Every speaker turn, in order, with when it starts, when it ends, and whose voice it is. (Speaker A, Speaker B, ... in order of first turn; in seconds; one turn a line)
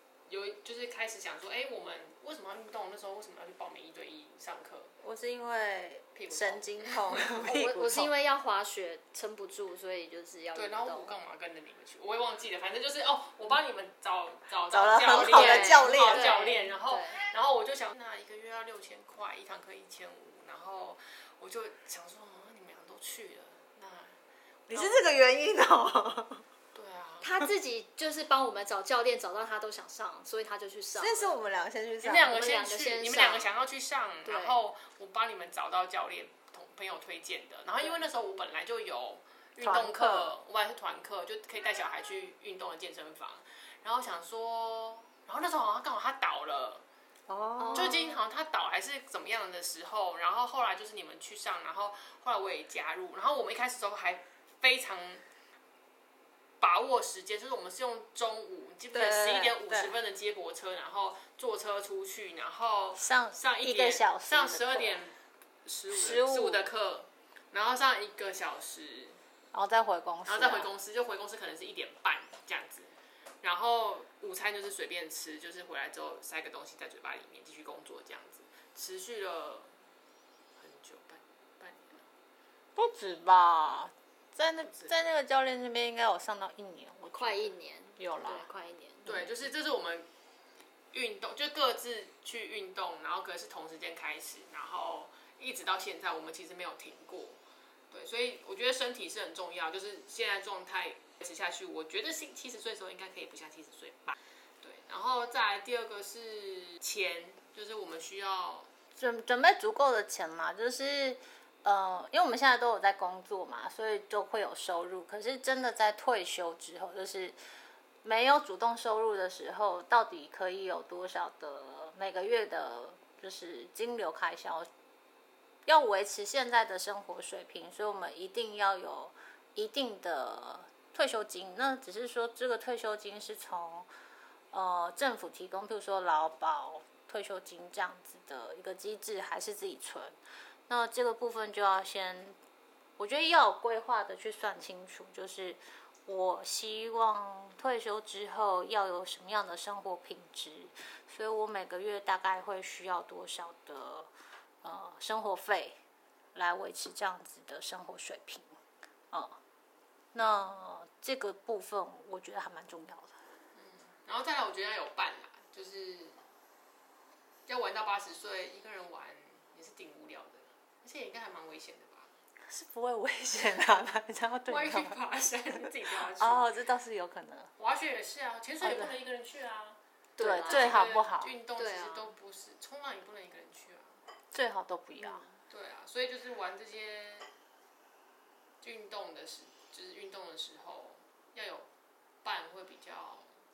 Speaker A: 0.3-4.9
Speaker B: 5.0-8.1
Speaker A: 6.2-7.4
Speaker C: 7.4-11.2
Speaker A: 10.6-24.1
Speaker B: 14.7-16.4
Speaker C: 15.1-17.3
Speaker B: 24.7-26.4
Speaker A: 24.7-25.0
Speaker A: 26.7-27.3
Speaker C: 27.2-31.4
Speaker B: 30.9-32.3
Speaker A: 32.0-46.8
Speaker C: 32.3-33.5
Speaker C: 34.2-34.6
Speaker B: 39.6-40.3
Speaker B: 47.3-48.0
Speaker C: 47.6-48.2
Speaker A: 47.7-55.2
Speaker A: 56.6-69.2
Speaker B: 58.9-59.9
Speaker B: 63.0-65.0
Speaker B: 65.9-66.7
Speaker B: 69.5-70.7
Speaker A: 70.3-72.9
Speaker A: 73.4-79.7
Speaker A: 80.6-82.1
Speaker B: 82.8-88.5
Speaker C: 87.1-89.1
Speaker B: 89.0-89.3
Speaker A: 89.1-90.1
Speaker A: 90.9-97.4
Speaker A: 97.9-108.7
Speaker B: 108.9-117.4
Speaker B: 118.0-124.7
Speaker B: 125.7-133.9
Speaker B: 134.5-140.2
Speaker B: 140.7-142.4
Speaker B: 143.0-154.1
Speaker B: 154.6-155.8
Speaker B: 156.3-158.5
Speaker B: 159.1-159.4
Speaker B: 160.1-163.2
Speaker A: 163.6-166.2
Speaker A: 167.5-172.1
Speaker B: 172.5-175.0
Speaker A: 174.5-176.5
Speaker B: 175.6-177.5
Speaker A: 177.6-184.0
Speaker B: 178.6-178.9
Speaker C: 180.2-180.8
Speaker B: 180.2-181.3
Speaker C: 181.6-182.1
Speaker B: 184.3-185.2
Speaker C: 185.0-185.3
Speaker A: 185.5-187.3
Speaker A: 188.6-191.7
Speaker A: 192.2-193.3